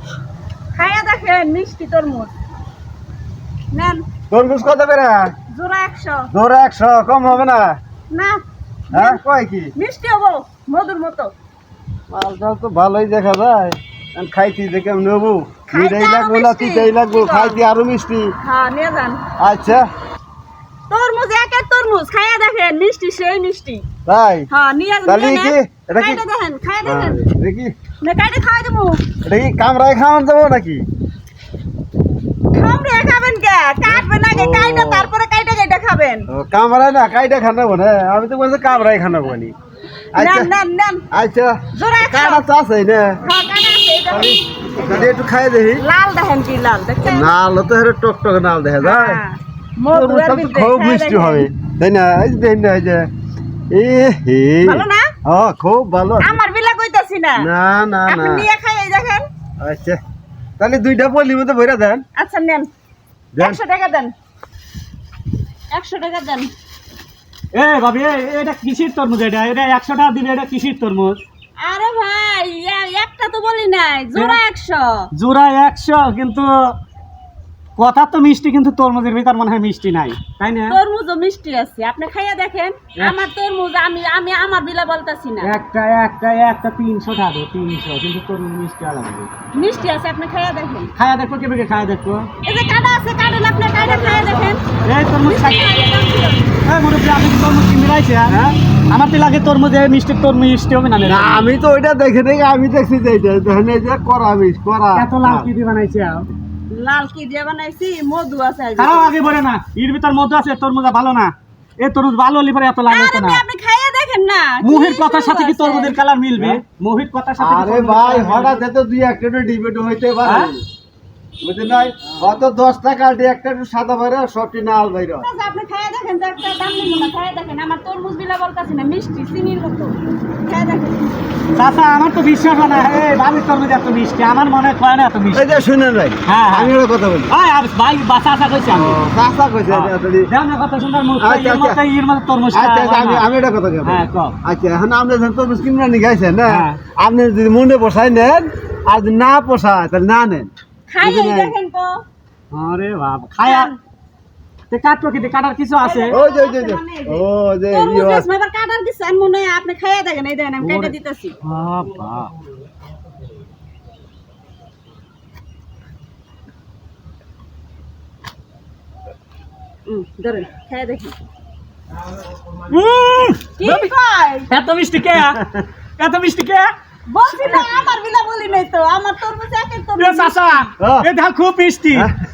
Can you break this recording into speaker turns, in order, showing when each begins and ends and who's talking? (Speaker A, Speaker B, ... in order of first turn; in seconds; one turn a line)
Speaker A: 0.7-2.3
Speaker A: 3.7-4.0
Speaker B: 4.3-5.3
Speaker A: 5.5-6.3
Speaker B: 6.3-7.8
Speaker A: 8.1-9.2
Speaker B: 8.9-9.7
Speaker A: 9.7-11.3
Speaker B: 12.1-18.3
Speaker A: 15.7-17.6
Speaker A: 18.4-19.2
Speaker B: 19.4-19.9
Speaker A: 20.9-23.8
Speaker B: 24.0-24.5
Speaker A: 24.5-27.2
Speaker B: 25.0-26.2
Speaker B: 26.8-27.7
Speaker A: 28.0-29.1
Speaker B: 29.2-30.9
Speaker A: 32.5-36.3
Speaker B: 33.9-35.1
Speaker B: 36.3-39.5
Speaker B: 40.1-40.5
Speaker A: 40.1-41.0
Speaker B: 41.1-43.2
Speaker A: 41.7-42.4
Speaker A: 43.2-44.4
Speaker B: 44.1-45.8
Speaker A: 45.8-47.3
Speaker B: 47.0-49.2
Speaker A: 48.8-51.5
Speaker B: 49.9-53.1
Speaker B: 53.7-56.4
Speaker A: 54.6-55.1
Speaker A: 56.2-57.5
Speaker B: 57.4-58.5
Speaker A: 58.0-59.3
Speaker B: 59.6-60.0
Speaker B: 60.6-62.0
Speaker A: 62.1-62.7
Speaker B: 63.3-63.6
Speaker A: 63.4-64.1
Speaker A: 65.7-66.5
Speaker C: 67.5-71.2
Speaker A: 71.6-75.1
Speaker C: 75.1-76.8
Speaker C: 77.8-80.8
Speaker A: 80.7-85.5
Speaker C: 85.4-89.3
Speaker A: 89.5-90.9
Speaker C: 91.0-92.3
Speaker A: 92.4-94.6
Speaker B: 93.8-94.6
Speaker C: 94.8-95.7
Speaker A: 95.2-96.5
Speaker C: 96.6-98.4
Speaker C: 98.9-101.5
Speaker B: 101.0-105.5
Speaker C: 104.9-106.3
Speaker A: 106.7-109.3
Speaker C: 108.8-113.4
Speaker A: 112.8-116.0
Speaker C: 114.6-118.6
Speaker B: 117.4-120.6
Speaker C: 120.2-120.5
Speaker B: 121.4-125.3
Speaker A: 125.2-131.1
Speaker C: 131.5-135.6
Speaker B: 135.3-137.3
Speaker C: 136.3-136.7
Speaker C: 137.3-139.0
Speaker B: 138.7-140.3
Speaker C: 139.7-143.2
Speaker B: 141.2-141.8
Speaker B: 142.5-151.5
Speaker C: 143.8-144.3
Speaker C: 146.4-146.8
Speaker A: 150.9-152.0
Speaker C: 152.5-153.7
Speaker A: 153.4-153.8
Speaker C: 154.7-156.2
Speaker A: 155.8-161.4
Speaker B: 156.1-158.3
Speaker C: 160.6-162.3
Speaker A: 169.8-171.2
Speaker C: 172.7-173.9
Speaker A: 173.6-174.5
Speaker C: 174.5-176.7
Speaker A: 177.1-180.7
Speaker C: 180.0-182.1
Speaker B: 180.8-181.1